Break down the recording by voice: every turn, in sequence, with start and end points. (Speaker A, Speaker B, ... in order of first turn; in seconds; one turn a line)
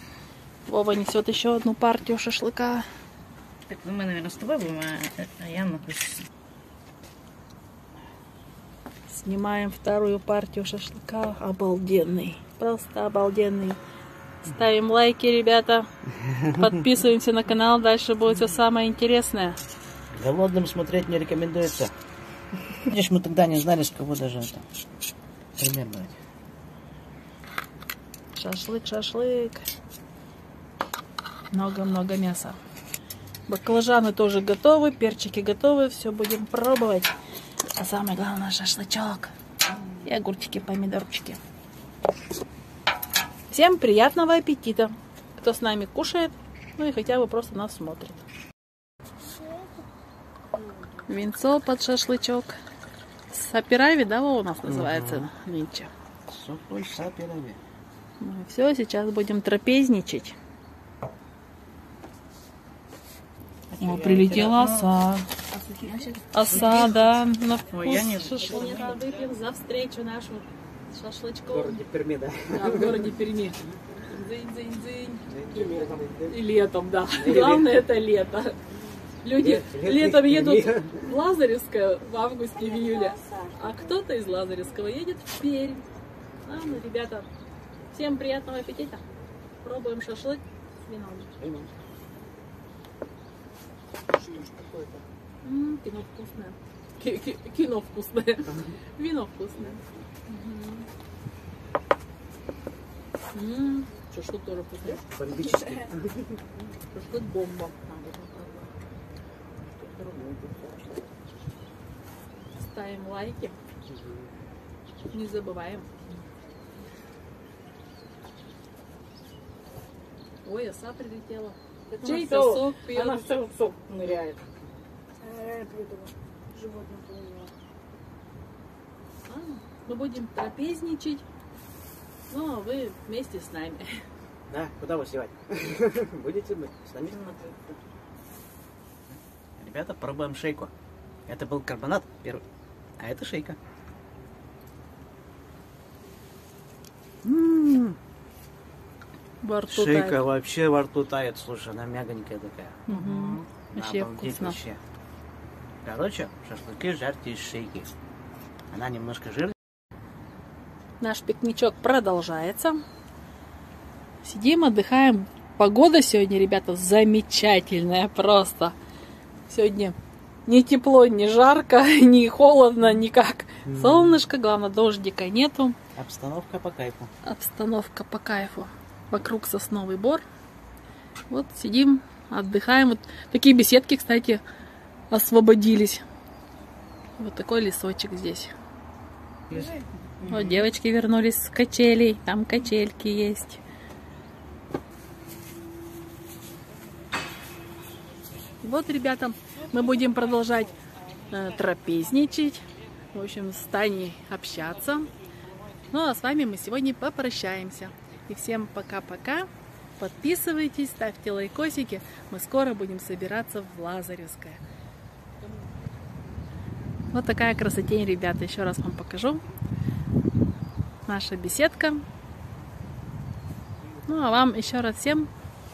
Speaker A: 0.7-2.8
Speaker B: 3.7-6.2
Speaker C: 3.8-6.2
Speaker A: 9.1-13.8
Speaker A: 14.4-19.6
Speaker B: 20.1-21.9
Speaker B: 22.8-24.6
Speaker B: 25.6-26.2
Speaker A: 28.3-29.6
Speaker A: 31.5-32.6
Speaker A: 33.5-37.1
Speaker A: 37.8-39.3
Speaker A: 40.0-41.4
Speaker A: 43.5-48.2
Speaker A: 51.0-52.5
Speaker A: 53.3-55.9
Speaker B: 54.6-55.3
Speaker B: 56.3-57.6
Speaker A: 58.2-60.4
Speaker B: 63.7-64.8
Speaker A: 63.8-65.3
Speaker C: 64.2-64.8
Speaker C: 65.5-66.9
Speaker A: 66.3-71.8
Speaker B: 67.7-68.6
Speaker C: 67.8-69.0
Speaker B: 71.5-73.0
Speaker A: 72.5-75.2
Speaker B: 75.3-76.3
Speaker A: 76.2-78.6
Speaker B: 77.2-77.8
Speaker A: 79.2-85.9
Speaker B: 79.3-81.0
Speaker C: 83.1-83.4
Speaker A: 86.4-87.3
Speaker A: 87.9-89.0
Speaker A: 89.6-91.3
Speaker B: 91.4-91.7
Speaker B: 94.3-95.0
Speaker A: 95.4-100.9
Speaker A: 103.3-105.0
Speaker B: 105.0-106.3
Speaker A: 106.9-108.7
Speaker B: 109.8-110.8
Speaker A: 112.5-113.6
Speaker B: 113.9-114.2
Speaker A: 115.1-115.9
Speaker A: 120.4-123.3
Speaker C: 121.9-124.4
Speaker C: 125.2-127.5
Speaker A: 129.2-131.2
Speaker A: 132.3-134.1
Speaker B: 134.5-137.6
Speaker B: 139.6-140.7
Speaker B: 141.3-142.4
Speaker B: 143.0-143.6
Speaker A: 147.3-147.9
Speaker A: 149.4-150.2
Speaker B: 149.7-154.8
Speaker A: 152.9-154.6
Speaker B: 155.8-157.9
Speaker B: 158.7-159.6
Speaker A: 161.0-162.8
Speaker A: 164.2-168.8
Speaker A: 169.5-169.9
Speaker A: 170.5-175.8
Speaker B: 173.7-174.2
Speaker B: 175.9-177.1
Speaker A: 177.2-180.2
Speaker A: 181.3-184.4
Speaker A: 185.1-186.0
Speaker A: 187.2-188.5
Speaker A: 190.2-193.6
Speaker A: 198.6-200.7
Speaker A: 201.3-205.1
Speaker A: 205.9-214.6
Speaker A: 217.1-219.4
Speaker A: 221.1-222.0
Speaker A: 224.1-225.3